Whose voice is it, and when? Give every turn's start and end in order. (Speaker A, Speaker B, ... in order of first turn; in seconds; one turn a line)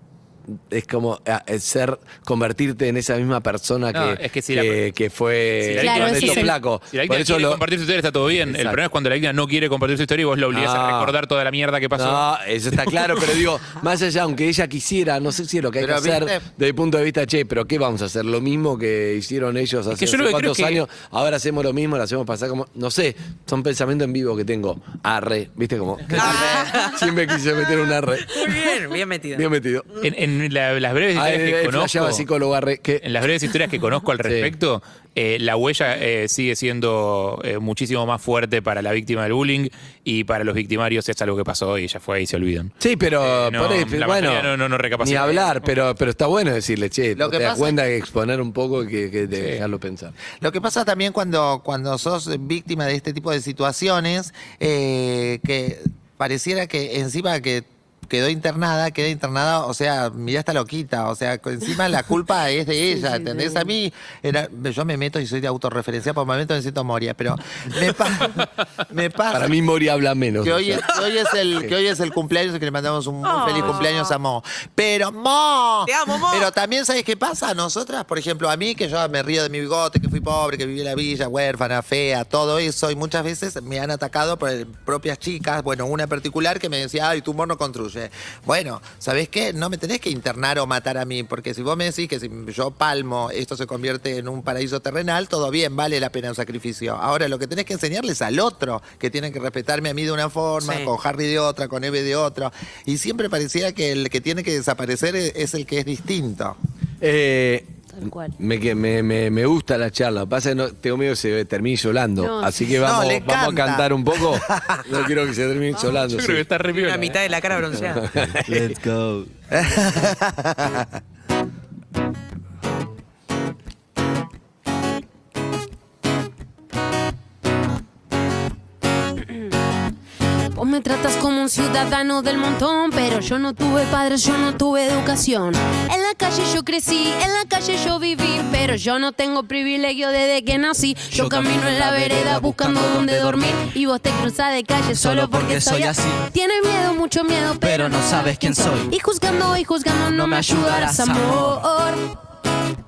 Speaker A: 0.7-7.6
Speaker B: 3.9-4.8
Speaker B: 5.6-13.4
Speaker C: 5.8-6.5
Speaker A: 8.4-8.8
Speaker A: 10.5-11.2
Speaker A: 11.9-28.7
Speaker D: 15.8-16.5
Speaker B: 19.9-20.8
Speaker E: 26.1-27.1
Speaker D: 26.1-26.8
Speaker E: 28.3-30.0
Speaker A: 29.3-29.9
Speaker B: 30.0-32.3
Speaker A: 31.1-33.1
Speaker B: 33.0-45.6
Speaker A: 34.2-34.5
Speaker A: 42.8-50.1
Speaker D: 47.2-47.8
Speaker B: 49.4-49.6
Speaker D: 50.4-69.5
Speaker C: 62.9-63.7
Speaker A: 69.3-70.9
Speaker D: 70.4-106.6
Speaker E: 73.2-74.2
Speaker E: 75.9-76.5
Speaker E: 100.6-100.9
Speaker A: 107.0-107.7
Speaker C: 107.9-108.3
Speaker A: 108.4-116.6
Speaker C: 112.2-112.6
Speaker D: 112.7-115.0
Speaker B: 115.8-117.2
Speaker E: 116.7-118.1
Speaker A: 118.0-118.7
Speaker F: 118.1-119.3
Speaker D: 119.5-120.9
Speaker C: 130.6-152.1
Speaker F: 141.1-143.6
Speaker F: 144.9-146.2
Speaker F: 147.6-148.9
Speaker F: 150.1-151.6